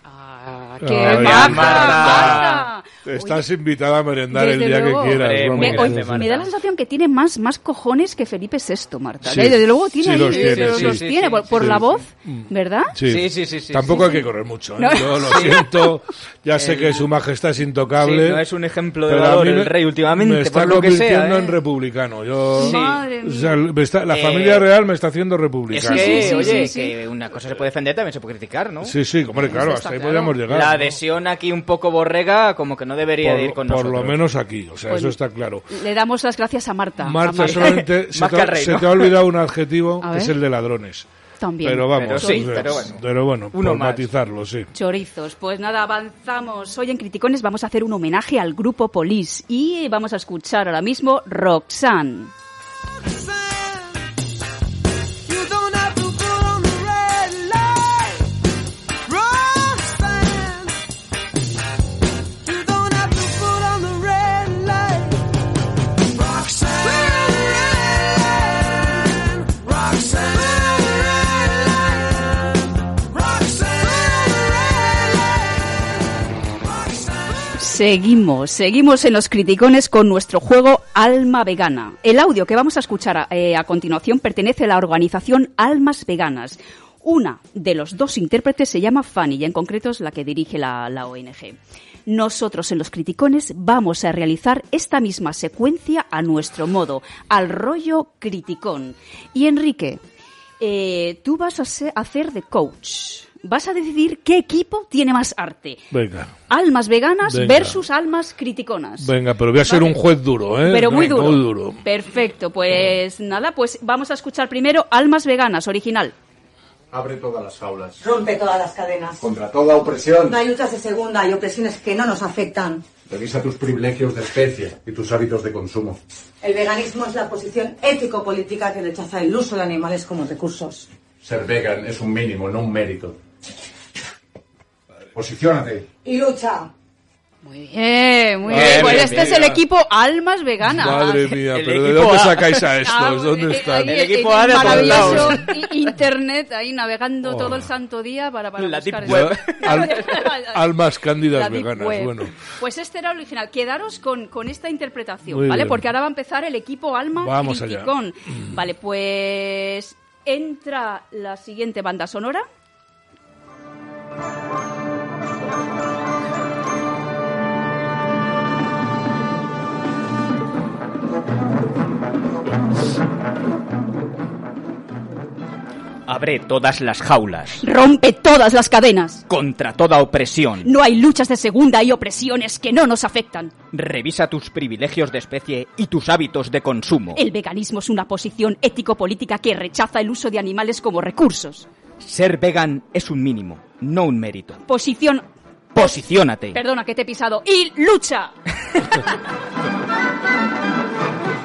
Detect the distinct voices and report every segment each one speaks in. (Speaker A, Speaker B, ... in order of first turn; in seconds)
Speaker A: 0.8-2.5, 3.1-6.3, 9.2-18.4, 19.0-26.7, 28.8-31.0, 33.2-35.7, 37.0-41.1, 41.6-44.7, 105.9-106.3, 107.2-107.8, 109.0-111.8, 138.5-139.6, 140.6-145.4, 147.2-147.7, 149.1-152.3, 155.3-155.8, 157.2-157.9
Speaker B: 0.8-3.5, 4.3-13.0, 13.9-15.9, 22.6-23.6, 25.8-26.9, 29.4-30.4, 34.9-35.2, 35.7-37.7, 40.0-40.4, 41.4-42.6, 44.7-52.3, 77.5-100.0, 100.6-105.8, 106.5-110.0, 110.5-116.1, 137.4-141.3, 142.8-150.8, 151.3-162.4, 177.6-179.2, 180.6-183.5, 187.2-191.7, 194.7-198.3
Speaker C: 1.0-2.7, 5.1-6.5, 10.1-12.0, 13.1-14.0, 15.2-15.6, 16.6-17.1, 18.0-21.6, 22.6-23.0, 24.1-24.7, 25.7-29.6, 30.5-34.2, 37.4-39.2, 41.9-44.1, 138.5-139.5, 141.3-142.7, 143.8-145.6, 148.6-150.1, 176.1-177.6, 179.3-180.7, 183.7-187.2, 192.0-194.6, 195.7-196.6
Speaker D: 116.9-118.0, 119.2-120.4, 123.1-126.0, 131.2-133.2, 135.2-135.9
Speaker E: 118.0-119.2, 120.3-122.8, 126.4-130.9, 136.0-136.7